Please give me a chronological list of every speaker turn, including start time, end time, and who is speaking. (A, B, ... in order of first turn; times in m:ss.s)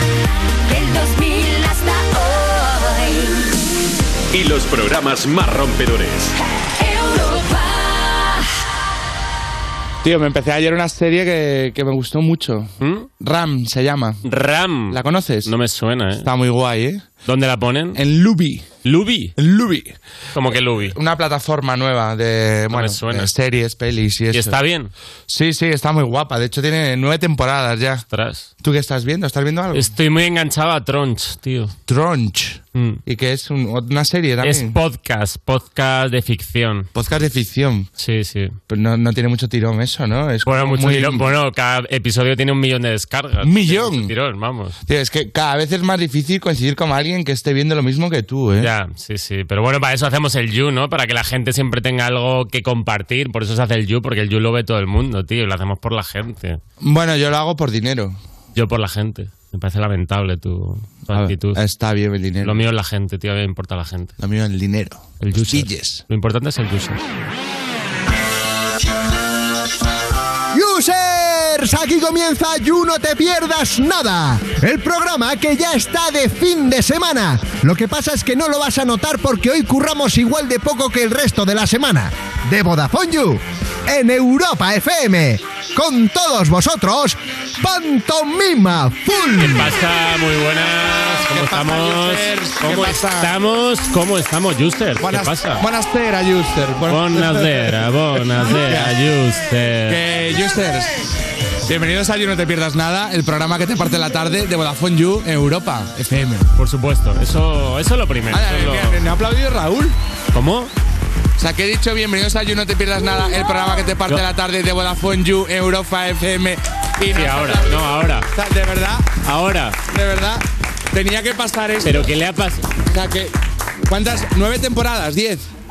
0:00.7-0:03.3 A
0:04.3-0:06.3 B
0:06.8-0:08.3 A
0:10.0-0:14.2 C
0:12.8-0:13.1 D
0:14.2-0:16.2 D
0:14.9-0:15.5 C
0:16.2-0:17.0 C
0:17.2-0:18.0 D
0:17.9-0:18.6 C
0:18.8-0:19.3 D
0:19.4-0:20.0 C
0:20.3-0:21.0 D
0:20.9-0:24.6 C
0:22.7-0:23.3 D
0:24.3-0:24.9 D
0:25.3-0:28.0 C
0:28.1-0:28.5 D
0:28.6-0:29.9 C
0:29.7-0:31.7 D
0:31.9-0:34.7 C
0:32.7-0:33.0 D
0:34.4-0:36.9 D
0:36.9-0:37.9 C
0:38.0-0:38.6 D
0:38.7-0:41.3 C
0:40.4-0:44.8 D
0:43.4-0:44.1 C
0:44.9-0:48.7 C
0:48.6-0:56.6 D
0:56.8-0:58.2 C
0:58.5-1:01.6 D
1:01.1-1:02.6 C
1:02.4-1:04.1 D
1:04.2-1:06.0 C
1:05.2-1:07.0 D
1:10.5-1:29.7 E
1:29.4-1:35.6 D
1:31.0-1:33.3 C
1:35.0-1:37.8 C
1:36.9-1:40.0 D
1:38.4-1:39.0 C
1:39.9-1:41.1 C
1:41.6-1:46.5 C
1:46.5-1:49.0 D
1:48.3-1:50.0 C
1:50.3-1:50.7 D
1:51.4-1:59.2 C
1:57.1-1:58.3 D
1:59.2-1:59.8 D
1:59.9-2:02.1 C
2:01.8-2:02.7 D
2:02.9-2:03.3 C
2:03.8-2:05.5 C